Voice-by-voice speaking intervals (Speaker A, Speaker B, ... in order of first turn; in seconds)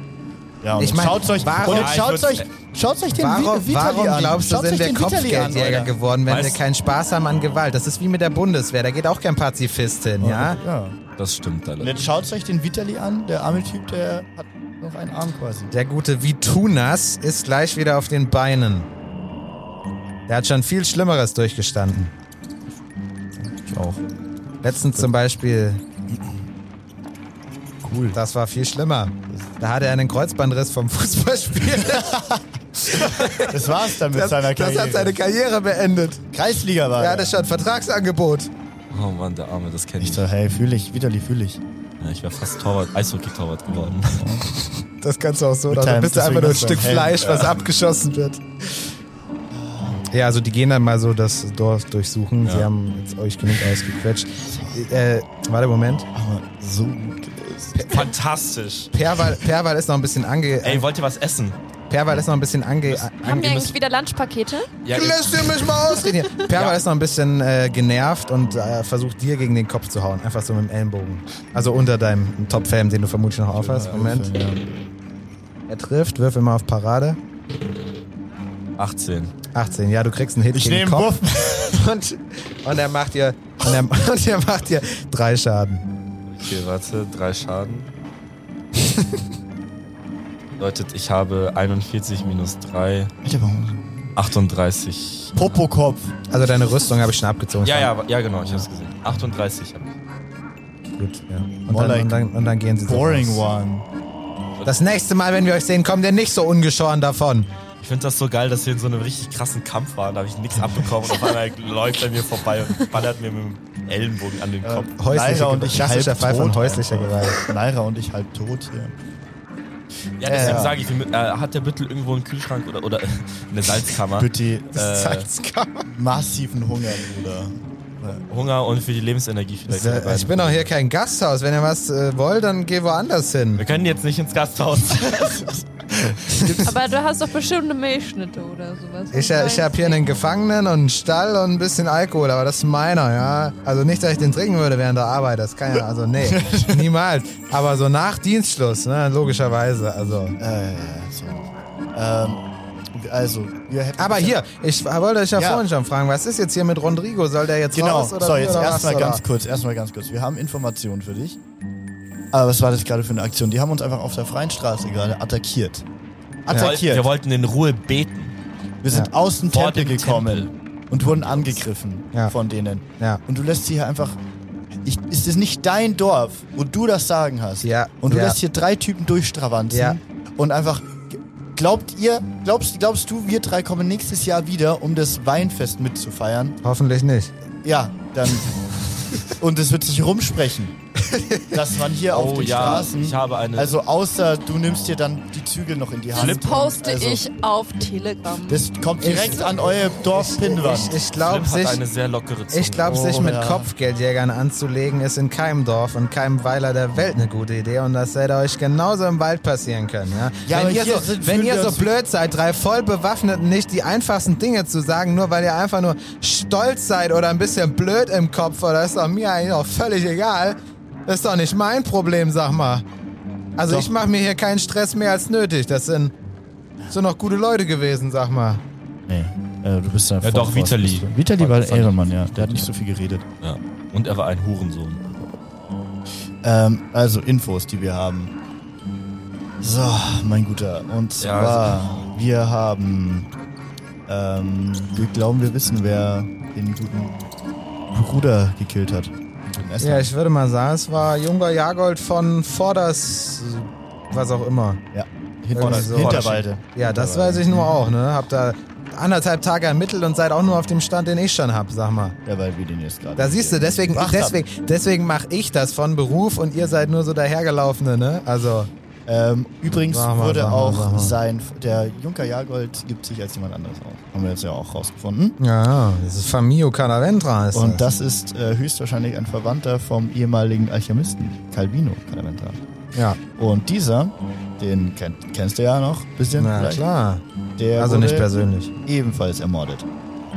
Speaker A: 0.6-5.9, 10.2-11.0, 11.8-15.7, 23.4-24.0, 27.8-28.2, 32.0-32.4, 33.2-35.1, 36.3-37.3, 40.0-41.6, 44.2-44.5, 45.7-47.5, 49.5-50.0, 54.5-54.8, 56.1-57.9, 73.7-74.8, 80.5-81.8, 93.2-94.1, 95.3-96.1, 101.7-102.2, 102.8-103.9, 114.6-118.9, 120.2-120.8, 124.1-124.8, 125.9-128.2, 135.2-136.8, 146.2-146.9, 150.4-152.4, 152.9-154.4, 155.3-155.6, 157.7-161.4, 162.3-165.8, 166.4-167.1, 168.8-174.2, 174.8-186.6, 187.6-188.5, 189.2-190.7, 191.5-197.2, 198.5-201.0, 202.8-203.7, 210.4-211.9, 223.7-223.9, 229.1-233.2, 236.4-238.3, 239.6-243.3, 244.1-247.2, 247.9-250.1, 254.9-257.9, 262.2-264.4, 269.1-275.4, 277.5-282.6, 283.4-286.8, 287.6-288.3, 288.8-289.9
Speaker B: 0.8-2.1, 3.1-10.6, 15.7-18.9, 20.3-22.1, 24.6-25.8, 28.1-32.2, 32.9-36.2, 37.0-38.5, 44.6-48.9, 50.1-56.1, 57.7-58.1, 58.9-60.9, 61.9-63.5, 64.9-74.3, 75.7-77.2, 79.5-85.8, 96.3-97.9, 101.0-103.4, 104.6-107.5, 115.0-117.5, 120.4-120.7, 124.8-125.9, 129.7-133.6, 139.1-150.4, 154.0-159.2, 166.5-166.8, 177.6-178.4, 179.7-180.0, 186.6-187.3, 191.0-191.6, 199.0-201.8, 202.5-222.8, 223.6-226.1, 226.9-228.6, 249.8-254.8, 255.5-262.2, 263.2-268.7, 269.9-271.2, 275.4-277.9, 286.3-287.2, 287.7-288.7
Speaker C: 1.6-2.5, 6.3-6.6, 11.2-12.0, 38.9-40.2, 42.0-44.3, 47.2-47.5, 57.9-58.9, 60.6-61.6, 62.9-63.7, 64.8-65.8, 66.5-66.8, 73.6-73.9, 78.8-79.3, 86.3-87.9, 90.6-93.1, 94.2-95.6, 97.6-99.9, 104.6-104.8, 107.8-114.9, 120.2-125.3, 128.3-130.7, 133.6-135.5, 166.5-168.4, 169.5-171.6, 192.1-193.8, 196.2-196.4, 201.1-202.9, 230.2-232.7, 233.4-235.1, 241.2-242.0, 255.6-256.4
Speaker D: 63.2-64.7, 136.6-140.1, 196.1-198.7